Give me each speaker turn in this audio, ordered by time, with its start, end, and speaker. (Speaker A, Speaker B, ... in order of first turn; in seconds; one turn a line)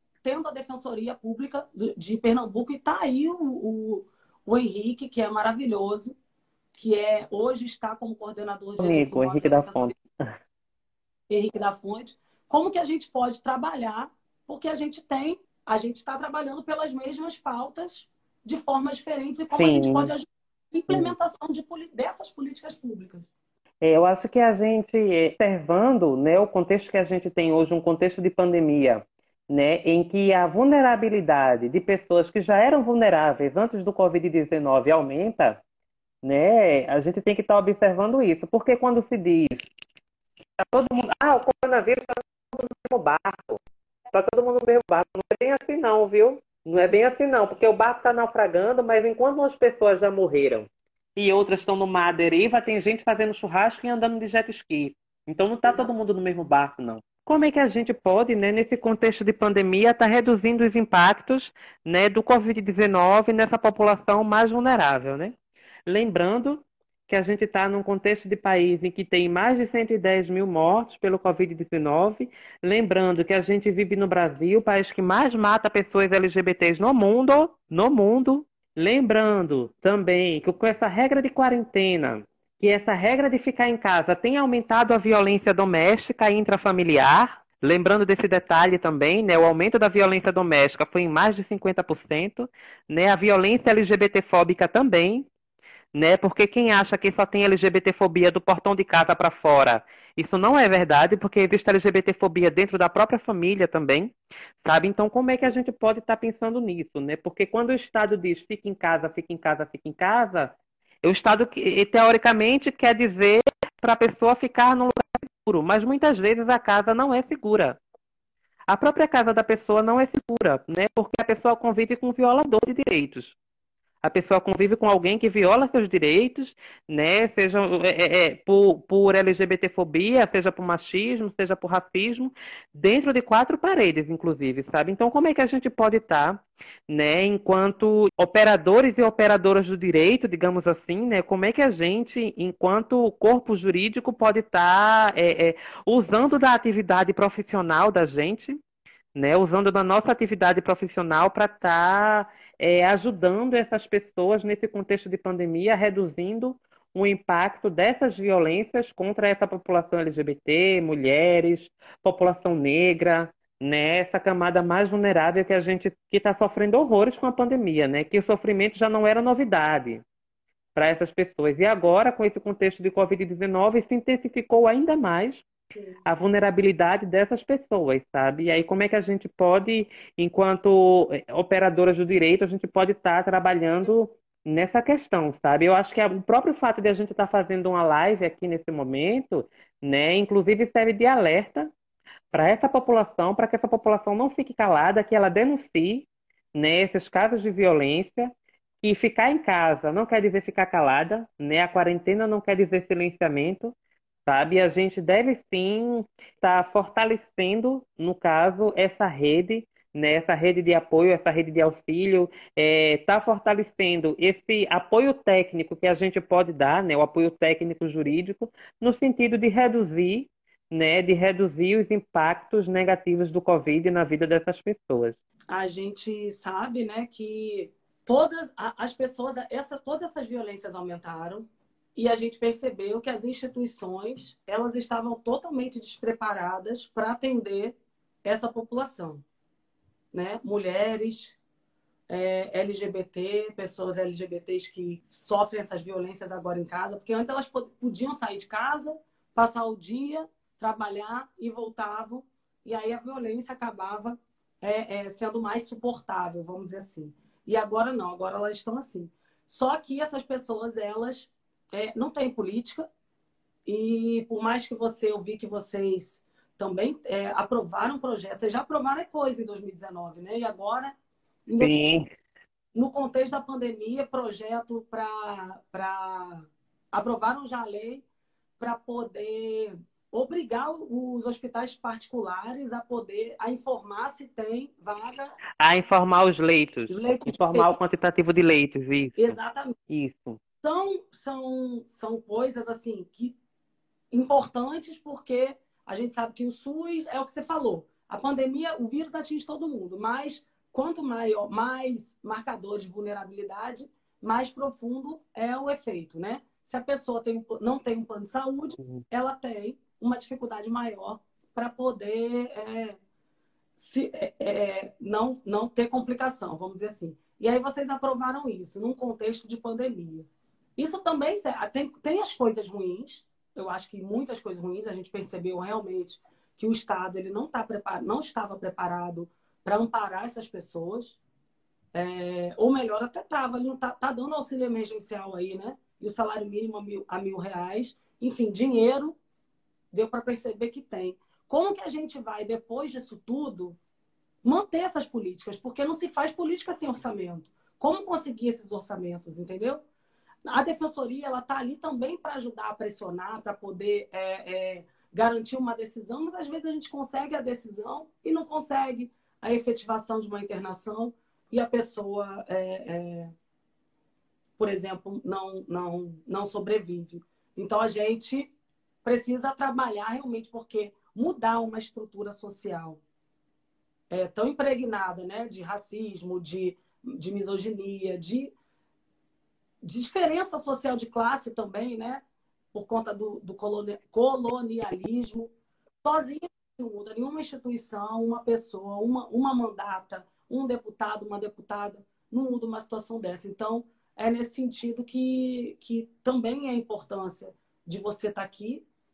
Speaker A: 0.2-6.2
Speaker A: 6.7-9.9
Speaker B: 8.8-10.3
Speaker A: 11.3-23.3
Speaker B: 19.5-20.1
Speaker B: 23.8-35.6
Speaker B: 36.2-39.7
Speaker B: 40.6-43.6
Speaker B: 44.1-65.3
Speaker A: 55.6-55.9
Speaker B: 65.9-95.3
Speaker B: 95.9-117.8
Speaker B: 118.7-123.4
Speaker B: 124.0-148.6
Speaker B: 149.2-170.0
Speaker B: 170.8-175.5
Speaker A: 175.7-176.0
Speaker B: 176.1-191.7
Speaker B: 192.3-203.7
Speaker B: 204.3-225.2
Speaker A: 225.5-239.2
Speaker A: 240.1-241.4
Speaker A: 242.1-262.9
Speaker A: 263.7-270.9
Speaker B: 271.6-272.1
Speaker A: 272.8-278.0
Speaker A: 278.6-285.4
Speaker B: 285.6-289.4
Speaker A: 286.9-287.8
Speaker A: 289.2-289.8
Speaker B: 289.9-290.4
Speaker A: 290.6-293.4
Speaker A: 294.1-313.0
Speaker A: 313.8-331.2
Speaker A: 331.9-339.2
Speaker A: 339.9-343.8
Speaker A: 344.4-349.8
Speaker A: 350.5-363.3
Speaker A: 364.6-368.5
Speaker A: 369.1-373.0
Speaker A: 374.1-378.5
Speaker A: 379.8-382.2
Speaker A: 382.7-385.5
Speaker A: 386.0-398.8